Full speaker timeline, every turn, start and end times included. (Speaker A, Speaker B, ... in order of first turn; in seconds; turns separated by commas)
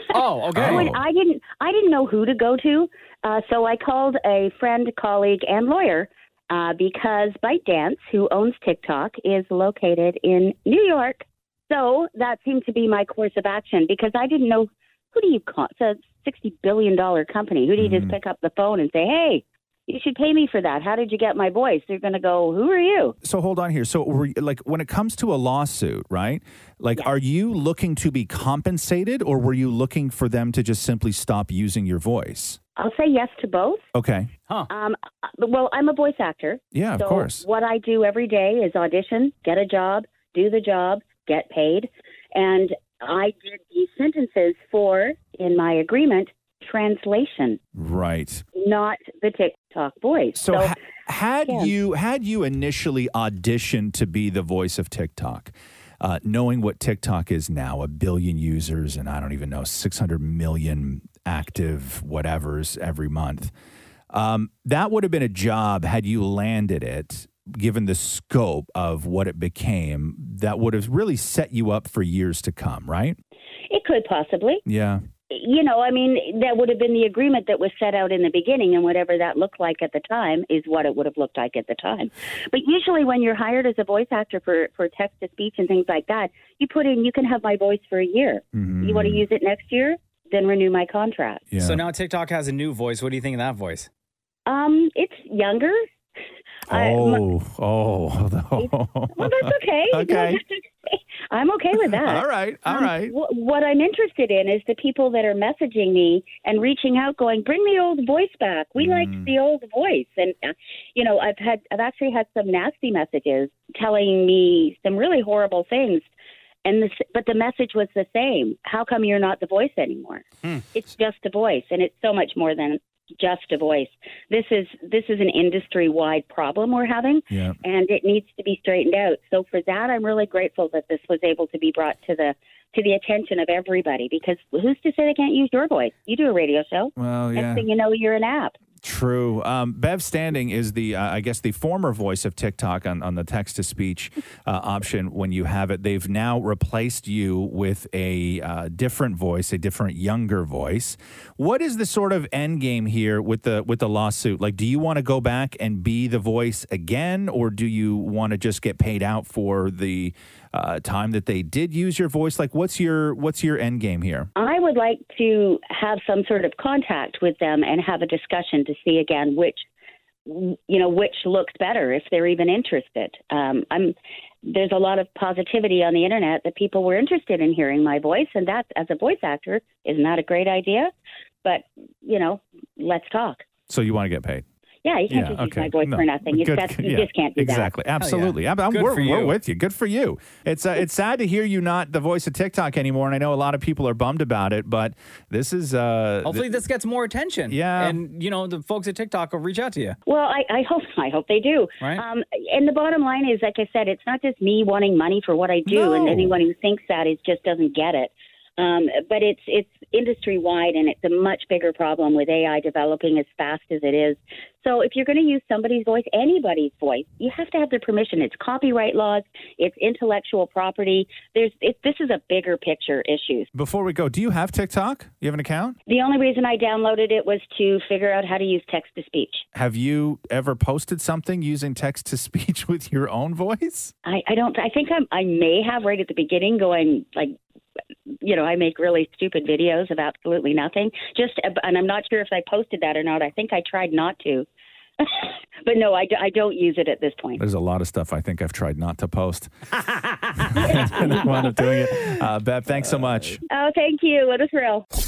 Speaker A: 0.1-0.9, Speaker B: 0.5-1.0, Speaker C: 0.6-23.1, Speaker B: 17.8-18.2, Speaker B: 23.2-32.6, Speaker C: 32.8-33.9, Speaker B: 33.9-34.3, Speaker C: 34.7-47.6, Speaker B: 36.7-37.5, Speaker B: 47.8-48.4, Speaker C: 48.5-50.8, Speaker B: 50.4-63.5, Speaker C: 51.5-51.7, Speaker B: 64.1-73.2, Speaker C: 73.7-74.6, Speaker B: 74.7-75.0, Speaker C: 75.3-91.5, Speaker B: 88.5-89.3, Speaker B: 91.5-91.8, Speaker A: 91.6-93.9, Speaker C: 94.5-95.8, Speaker B: 96.7-100.4, Speaker C: 96.7-97.2, Speaker C: 98.6-116.1, Speaker B: 101.8-103.2, Speaker B: 108.8-109.3, Speaker C: 116.7-138.6, Speaker B: 127.3-127.6, Speaker B: 137.0-137.7, Speaker B: 138.8-164.3, Speaker C: 164.4-169.7, Speaker C: 170.3-180.9, Speaker C: 181.4-183.4, Speaker B: 183.7-184.4, Speaker C: 184.8-187.7, Speaker B: 185.1-196.5, Speaker A: 188.0-189.4, Speaker A: 196.2-200.0, Speaker B: 197.5-198.0, Speaker C: 200.1-223.5, Speaker B: 205.7-206.4, Speaker B: 223.5-225.8, Speaker C: 225.9-229.4, Speaker B: 229.5-233.9, Speaker C: 234.1-237.3, Speaker C: 238.2-244.5, Speaker C: 245.0-247.4, Speaker B: 247.4-249.5, Speaker A: 249.9-251.1, Speaker B: 250.5-253.4, Speaker C: 250.7-251.3, Speaker C: 253.5-254.8